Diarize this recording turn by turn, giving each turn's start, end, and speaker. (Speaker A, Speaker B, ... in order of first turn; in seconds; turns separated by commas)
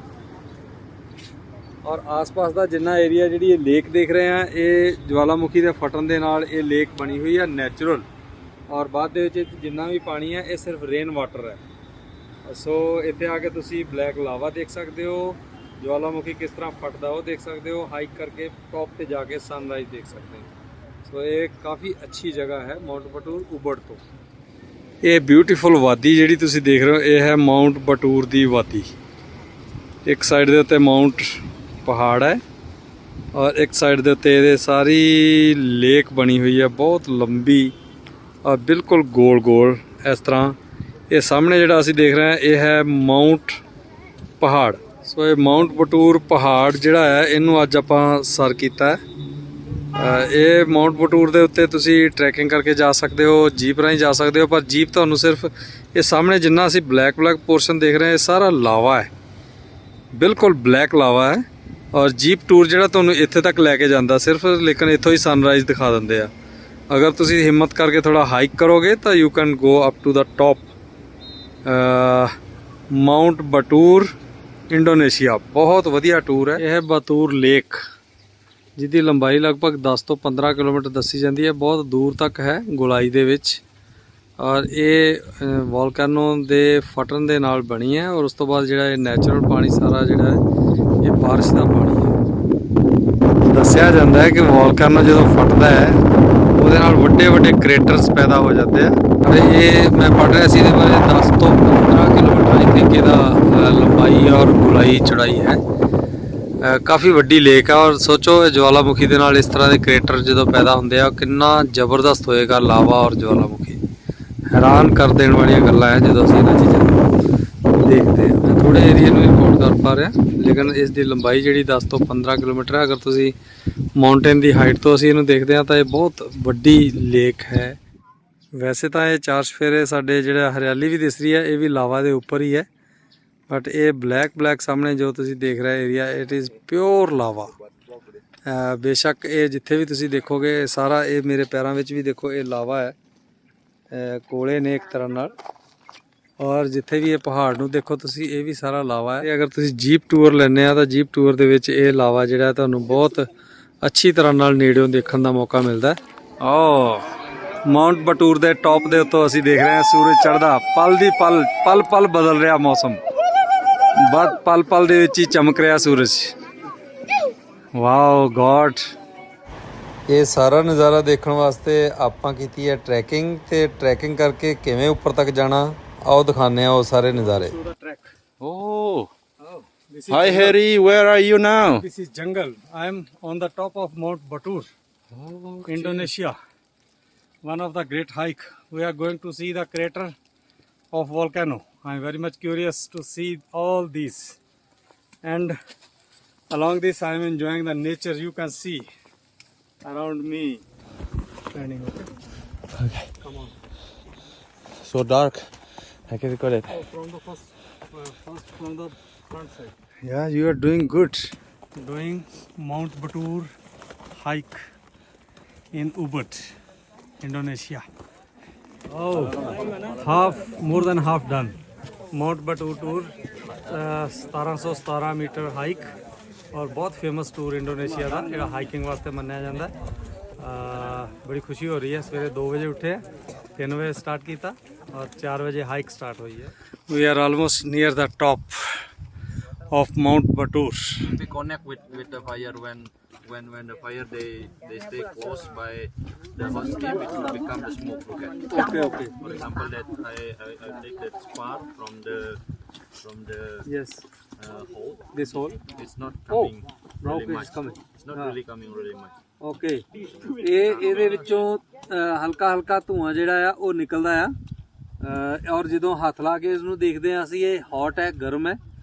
Speaker A: 1.8-8.1, Speaker A: 8.7-11.6, Speaker A: 12.4-20.5, Speaker A: 21.0-24.0, Speaker A: 25.0-28.9, Speaker A: 30.0-32.4, Speaker A: 33.3-37.7, Speaker A: 38.4-40.6, Speaker A: 41.1-43.6, Speaker A: 44.4-49.0, Speaker A: 49.9-59.1, Speaker A: 60.1-66.3, Speaker A: 66.9-70.7, Speaker A: 71.6-72.3, Speaker A: 72.9-74.1, Speaker A: 74.7-77.8, Speaker A: 78.8-83.6, Speaker A: 84.4-90.4, Speaker A: 91.0-92.2, Speaker A: 93.4-105.6, Speaker A: 106.6-113.8, Speaker A: 114.5-117.1, Speaker A: 117.7-123.3, Speaker A: 123.9-127.8, Speaker A: 128.5-132.7, Speaker A: 133.5-137.5, Speaker A: 138.4-142.9, Speaker A: 143.9-145.3, Speaker A: 146.4-153.3, Speaker A: 153.8-157.1, Speaker A: 157.6-163.0, Speaker A: 163.9-166.3, Speaker A: 167.7-168.9, Speaker A: 170.1-178.1, Speaker B: 178.4-179.1, Speaker A: 179.4-180.6, Speaker B: 180.1-181.8, Speaker C: 180.1-181.6, Speaker A: 181.6-184.7, Speaker B: 185.1-186.0, Speaker A: 185.6-186.4, Speaker A: 187.4-190.2, Speaker A: 190.9-194.4, Speaker A: 195.2-195.6, Speaker A: 196.5-198.9, Speaker A: 199.8-200.6, Speaker A: 201.5-202.1, Speaker A: 203.1-203.5, Speaker C: 204.8-205.5, Speaker C: 206.1-206.6, Speaker A: 206.1-213.5, Speaker A: 214.1-214.7, Speaker A: 215.7-216.5, Speaker A: 217.2-217.9, Speaker A: 218.9-221.6, Speaker A: 222.1-223.1, Speaker A: 223.6-225.9, Speaker A: 226.5-229.7, Speaker A: 230.4-233.0, Speaker A: 233.6-238.9, Speaker A: 239.7-241.1, Speaker B: 241.1-252.4, Speaker A: 248.5-249.1, Speaker B: 253.0-253.7, Speaker A: 253.6-254.0, Speaker B: 254.3-259.1, Speaker A: 255.1-255.6, Speaker A: 256.3-258.4, Speaker A: 259.4-264.4, Speaker B: 260.2-261.3, Speaker A: 265.0-268.6